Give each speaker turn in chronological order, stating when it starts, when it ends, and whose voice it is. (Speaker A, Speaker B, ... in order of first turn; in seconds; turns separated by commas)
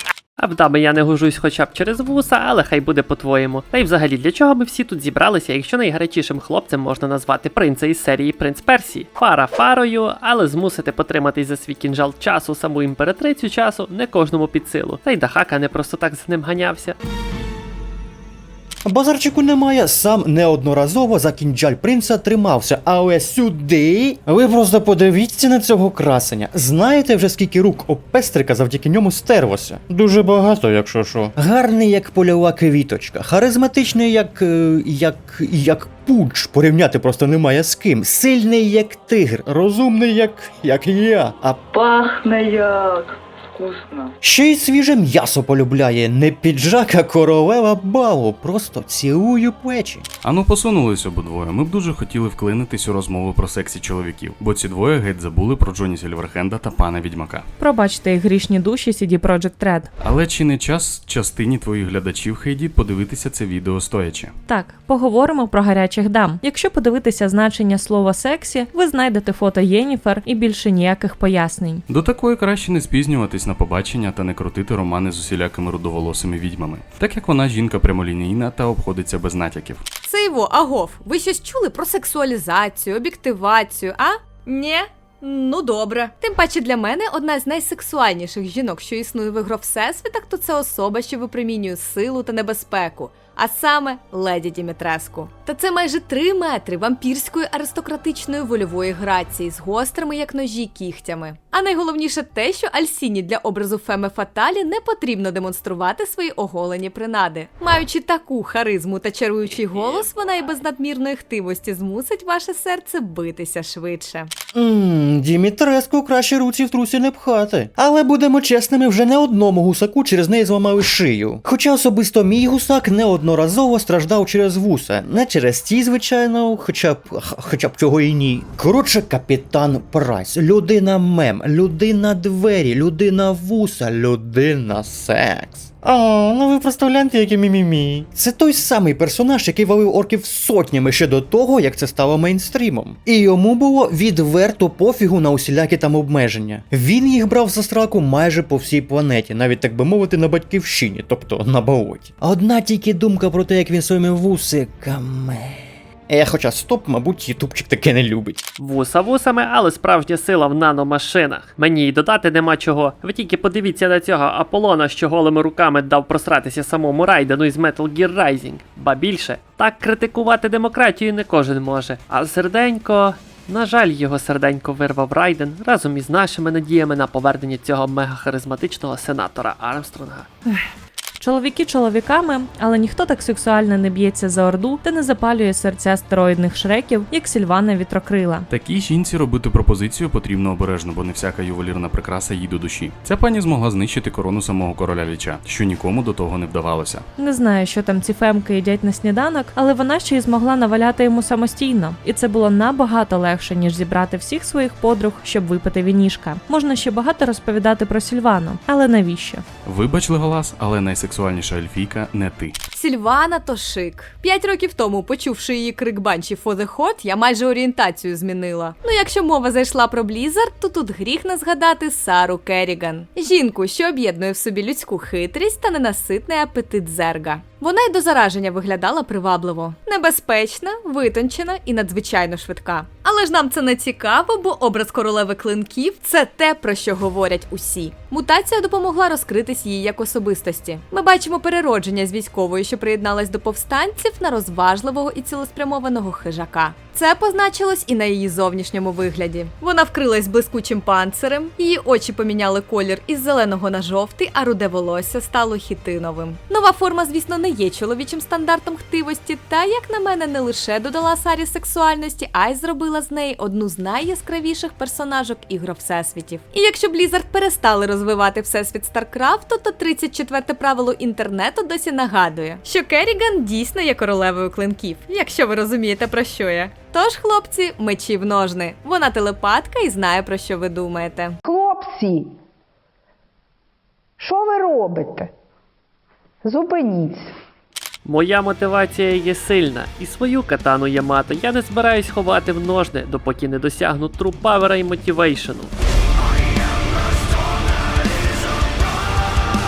Speaker A: 0.4-17.0, Speaker B: 18.9-41.6, Speaker C: 41.7-44.1, Speaker B: 44.2-50.1, Speaker D: 50.2-57.5, Speaker E: 57.6-59.9, Speaker D: 60.0-64.3, Speaker E: 64.5-71.8, Speaker D: 71.9-79.8, Speaker F: 80.0-114.3, Speaker B: 114.5-158.4, Speaker A: 158.6-180.3, Speaker E: 181.2-188.5, Speaker D: 188.5-197.1, Speaker E: 197.2-209.4, Speaker D: 209.7-212.6, Speaker F: 212.7-281.4, Speaker G: 281.4-282.3, Speaker G: 284.2-285.3, Speaker G: 286.4-287.3, Speaker A: 288.1-295.7